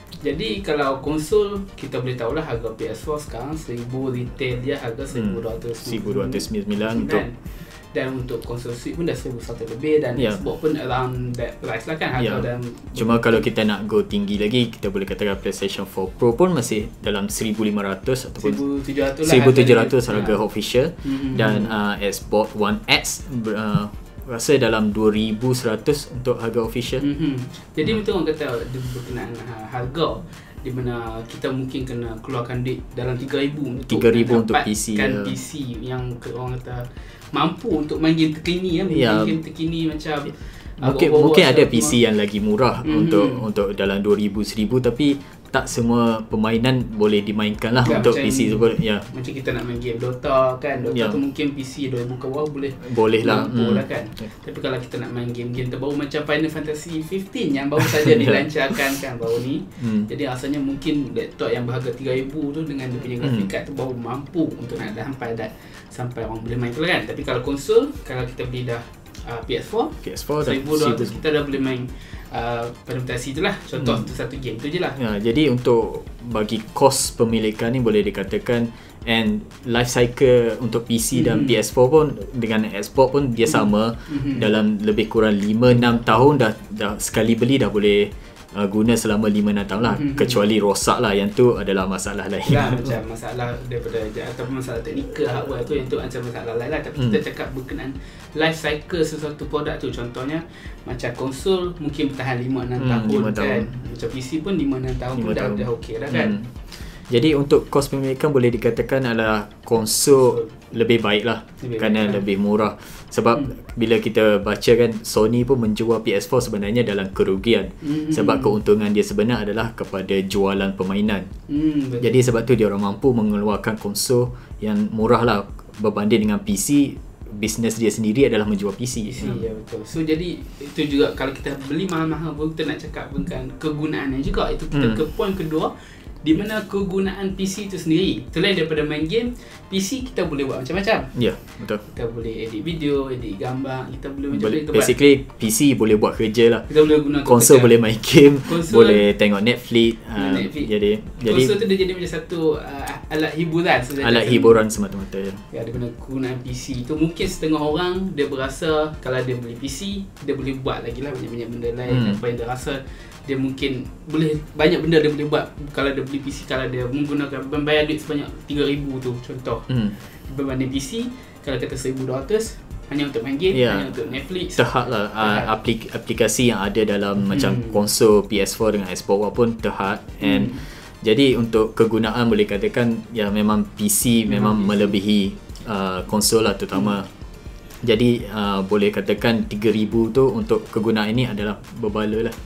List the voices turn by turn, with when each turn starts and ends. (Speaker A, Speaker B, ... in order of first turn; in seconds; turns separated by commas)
Speaker A: 0.2-13.4, Speaker B: 5.1-7.2, Speaker B: 12.2-18.6, Speaker A: 18.4-20.4, Speaker B: 19.2-27.0, Speaker A: 21.0-21.7, Speaker A: 27.0-42.0, Speaker B: 33.9-35.3, Speaker B: 38.9-39.4, Speaker B: 40.8-49.1, Speaker A: 42.8-43.4, Speaker A: 47.8-75.0, Speaker B: 50.9-51.2, Speaker B: 52.8-54.3, Speaker B: 58.0-58.8, Speaker B: 59.8-60.1, Speaker B: 63.2-63.5, Speaker B: 70.0-71.2, Speaker B: 73.8-74.0, Speaker B: 75.0-92.9, Speaker A: 81.1-81.6, Speaker A: 83.5-84.5, Speaker A: 85.7-86.3, Speaker A: 89.8-90.4, Speaker A: 92.4-106.4, Speaker B: 102.8-103.8, Speaker B: 105.2-121.3, Speaker A: 110.1-110.5, Speaker A: 111.6-112.2, Speaker A: 117.8-118.5, Speaker A: 121.5-122.2, Speaker B: 122.0-129.4, Speaker A: 129.1-144.9, Speaker B: 134.7-135.0, Speaker B: 141.1-141.8, Speaker B: 144.3-151.6, Speaker A: 146.7-149.1, Speaker A: 150.1-154.6, Speaker B: 154.0-155.4, Speaker A: 155.5-174.7, Speaker B: 161.9-162.2, Speaker B: 169.7-169.9, Speaker B: 173.5-173.9, Speaker B: 174.5-187.1, Speaker A: 175.2-175.5, Speaker A: 177.2-177.8, Speaker A: 180.2-180.6, Speaker A: 184.3-184.9, Speaker B: 187.8-192.3